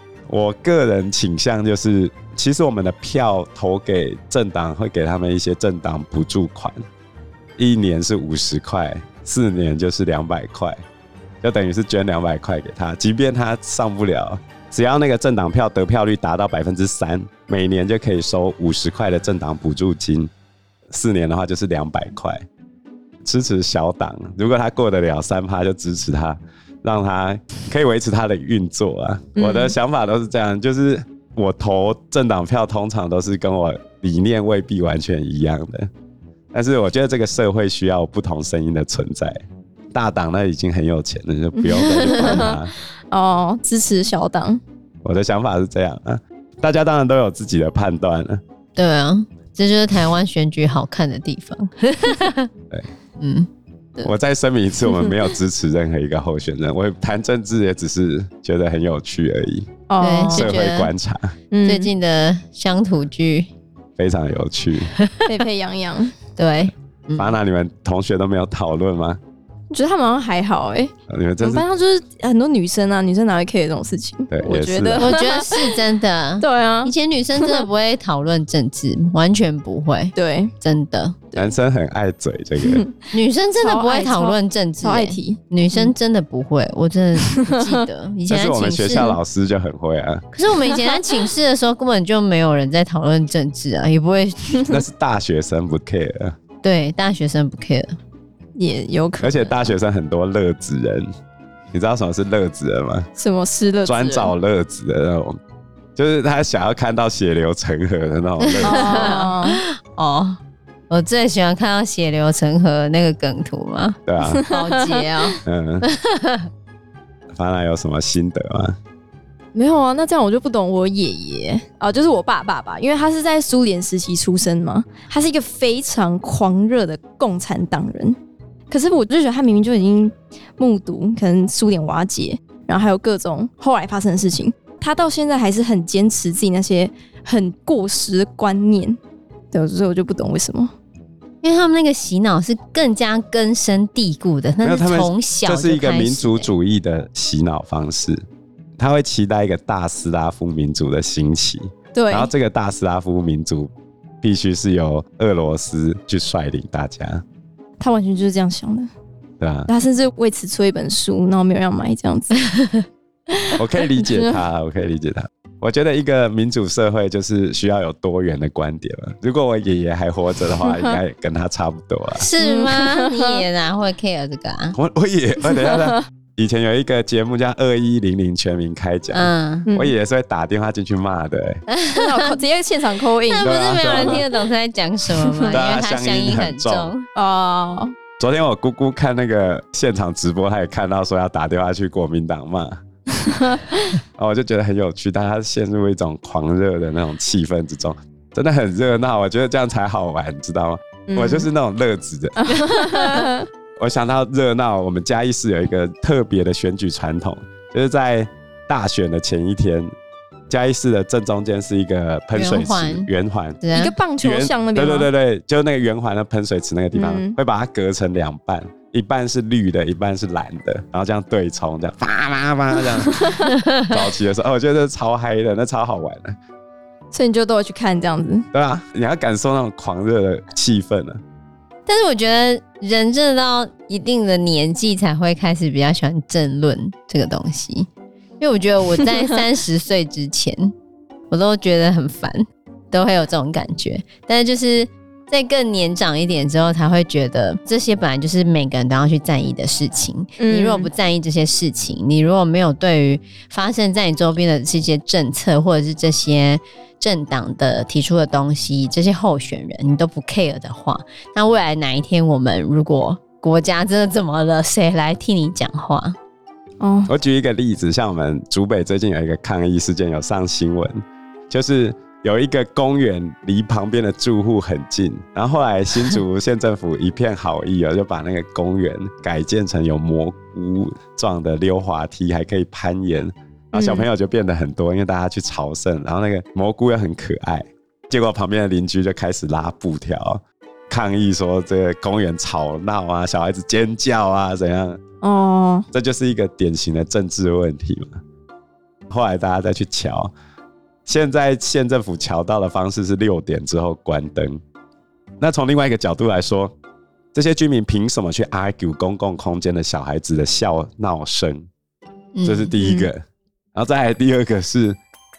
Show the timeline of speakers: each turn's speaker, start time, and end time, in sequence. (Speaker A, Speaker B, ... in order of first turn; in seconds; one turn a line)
Speaker A: 0.3-6.8
Speaker A: 7.6-10.8
Speaker A: 11.4-20.3
Speaker A: 20.9-22.4
Speaker A: 23.2-35.9
Speaker B: 29.4-29.8
Speaker A: 36.5-39.4
Speaker A: 39.9-42.7
Speaker B: 41.5-44.6
Speaker C: 41.8-42.4
Speaker A: 45.0-48.4
Speaker C: 48.8-52.5
Speaker C: 53.2-53.5
Speaker A: 54.0-59.7
Speaker B: 59.9-60.5
Speaker C: 60.0-60.9
Speaker A: 60.3-61.4
Speaker B: 61.5-61.9
Speaker C: 61.6-63.5
Speaker A: 64.0-64.9
Speaker C: 65.0-65.3
Speaker B: 65.3-66.1
Speaker C: 66.4-67.4
Speaker A: 67.2-69.2
Speaker B: 69.7-75.8
Speaker A: 71.1-71.7
Speaker A: 74.3-75.1
Speaker C: 75.0-81.2
Speaker B: 76.4-77.7
Speaker B: 80.2-80.5
Speaker A: 81.4-82.8
Speaker B: 82.6-83.1
Speaker C: 83.1-89.2
Speaker B: 83.6-85.9
Speaker B: 87.2-87.8
Speaker A: 88.3-90.3
Speaker C: 90.3-94.6
Speaker B: 90.7-91.3
Speaker B: 94.5-94.8
Speaker A: 94.7-96.4
Speaker C: 96.6-98.0
Speaker B: 98.6-99.7
Speaker A: 99.2-101.1
Speaker A: 101.7-103.1
Speaker B: 103.2-104.3
Speaker A: 103.8-105.4
Speaker A: 106.0-109.2
Speaker C: 108.4-116.5
Speaker B: 108.6-109.6
Speaker A: 114.1-114.5
Speaker B: 114.2-115.3
Speaker A: 115.5-115.8
Speaker A: 117.3-118.8
Speaker B: 119.5-128.2
Speaker B: 128.7-139.0
Speaker B: 139.5-140.7
Speaker C: 141.4-146.5
Speaker A: 144.6-148.2
Speaker A: 148.8-153.7
Speaker B: 151.9-152.3
Speaker A: 154.2-157.2
Speaker B: 157.8-158.9
Speaker A: 159.4-159.7
Speaker B: 159.7-162.4
Speaker C: 162.5-162.8
Speaker A: 163.6-172.3
Speaker B: 170.7-171.0
Speaker C: 172.2-174.8
Speaker B: 172.4-173.4
Speaker A: 174.8-181.6
Speaker B: 175.6-176.0
Speaker C: 179.1-179.7
Speaker B: 179.7-179.9
Speaker C: 181.7-182.3
Speaker B: 181.9-184.2
Speaker C: 183.2-187.1
Speaker A: 183.4-184.2
Speaker B: 185.3-185.5
Speaker A: 185.5-186.9
Speaker B: 187.2-187.9
Speaker A: 188.2-192.8
Speaker B: 193.2-193.9
Speaker A: 194.2-202.7
Speaker B: 201.1-201.5
Speaker B: 202.4-203.5
Speaker A: 203.8-209.9
Speaker A: 210.5-213.6
Speaker C: 212.3-213.1
Speaker C: 213.6-213.9
Speaker B: 213.8-215.1
Speaker A: 214.2-226.4
Speaker B: 216.9-217.4
Speaker B: 223.0-223.5
Speaker C: 223.5-223.9
Speaker B: 227.1-228.5
Speaker A: 228.5-231.2
Speaker C: 231.9-237.9
Speaker C: 238.4-240.7
Speaker C: 241.3-266.2
Speaker B: 250.4-250.9
Speaker B: 266.8-267.1
Speaker A: 267.1-295.0
Speaker B: 283.7-284.1
Speaker B: 295.2-295.9
Speaker A: 295.9-298.2
Speaker A: 299.1-300.3
Speaker A: 301.1-304.6
Speaker A: 305.4-306.8
Speaker A: 307.3-311.7
Speaker C: 312.4-312.8
Speaker A: 312.4-313.2
Speaker B: 312.8-313.1
Speaker A: 313.8-315.0